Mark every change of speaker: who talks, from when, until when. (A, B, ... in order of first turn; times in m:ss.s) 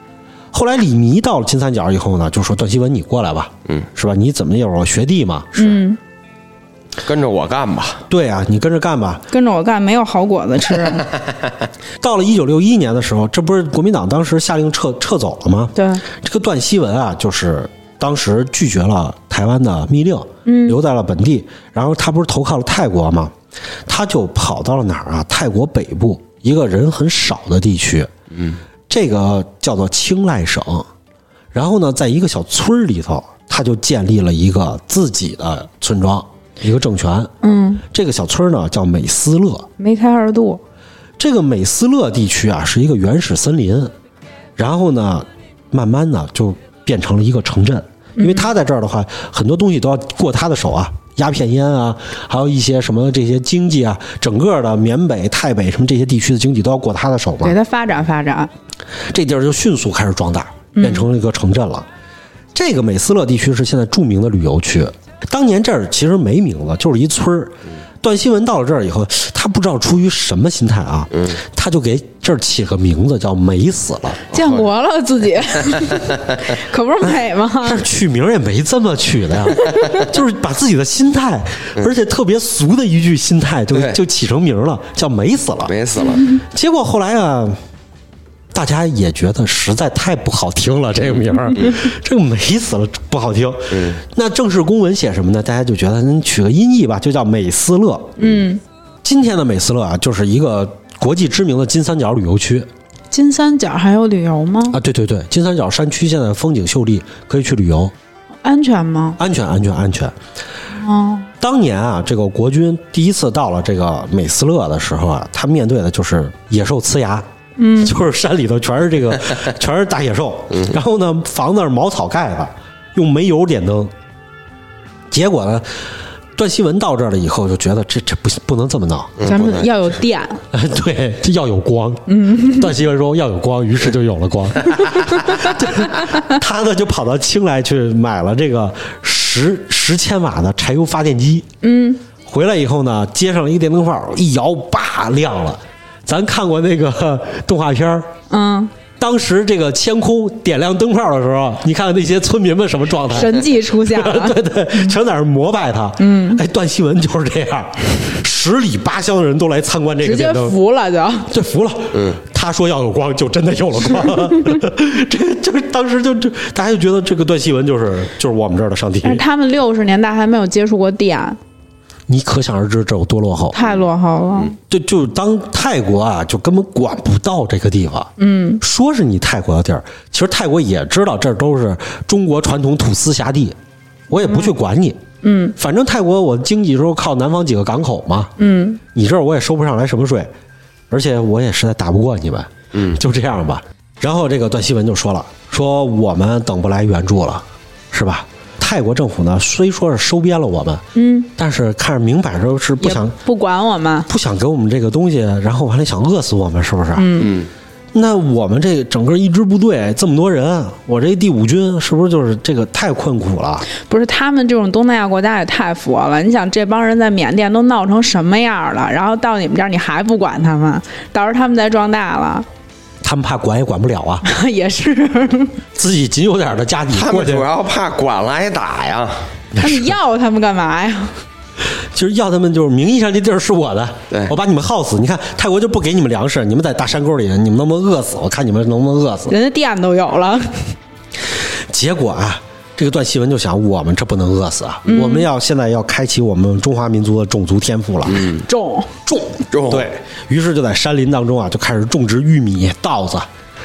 0:00.5-0:05.8 A
0:05.6-0:06.0 B
0:07.0-0:08.0 C
0:08.1-0:09.2 A
0:09.3-0:11.0 B
0:12.0-0:23.3 A
0:15.7-0:16.0 B
0:20.4-0:20.8 B
0:23.9-0:28.1 A
0:28.3-0:28.6 C
0:28.9-0:30.9 A
0:31.5-0:37.3 A
0:37.4-0:37.8 B
0:37.9-0:39.7 A
0:39.8-0:40.6 B
0:41.2-0:43.9 A
0:44.6-0:57.6 A
0:48.2-0:48.5 B
0:57.4-0:58.5 B
0:59.1-1:01.9 A
1:00.7-1:01.1 B
1:02.5-1:14.3 A
1:14.3-1:17.8 B
1:17.6-1:25.7 A
1:19.6-1:20.0 B
1:25.7-1:26.2 C
1:26.3-1:27.6 A
1:28.5-1:38.3 A
1:33.7-1:34.0 C
1:38.2-1:38.6 B
1:39.0-1:42.7 A
1:43.1-1:44.8 B
1:44.7-1:47.9 A
1:48.4-1:49.2 B
1:49.2-1:50.1 A
1:50.8-1:51.3 B
1:51.4-1:57.3 A
1:57.6-1:58.0 B
1:57.8-2:03.9 A
2:05.1-2:05.8 A
2:06.4-2:09.2 A
2:09.2-2:09.7 C
2:09.2-2:10.4 B
2:10.5-2:21.4 A
2:12.1-2:12.7 B
2:15.2-2:15.5 B
2:21.6-2:22.0 B
2:22.2-2:28.1 A
2:28.3-2:28.7 B
2:29.0-2:40.6 A
2:33.1-2:34.9 B
2:36.0-2:36.4 B
2:40.0-2:41.3 B
2:41.3-2:49.2 A
2:41.9-2:42.2 C
2:49.0-2:51.4 B
2:52.1-2:53.6 A
2:53.5-2:54.5 B
2:54.7-3:03.6 A
2:58.2-2:58.6 B
3:04.1-3:05.0 A
3:04.2-3:04.5 B
3:05.2-3:05.5 B
3:05.6-3:08.3 A
3:08.4-3:08.8 B
3:08.9-3:10.3 A
3:10.9-3:20.8 A
3:20.9-3:21.3 B
3:21.4-3:23.2 A
3:22.8-3:24.1 B
3:24.1-3:27.2 A
3:27.0-3:27.4 B
3:27.2-3:27.5 C
3:27.9-3:33.7 A
3:33.7-3:42.4 B
3:43.0-3:44.2 A
3:44.2-3:45.6 B
3:45.7-3:47.5 A
3:46.9-3:49.3 C
3:49.5-3:49.9 A
3:49.6-3:51.2 B
3:51.9-3:59.3 A
3:54.1-3:54.4 C
3:59.3-4:00.7 B
4:01.7-4:08.3 A
4:04.8-4:05.3 B
4:08.1-4:08.4 C
4:08.4-4:08.9 B
4:09.0-4:13.3 A
4:09.5-4:09.9 C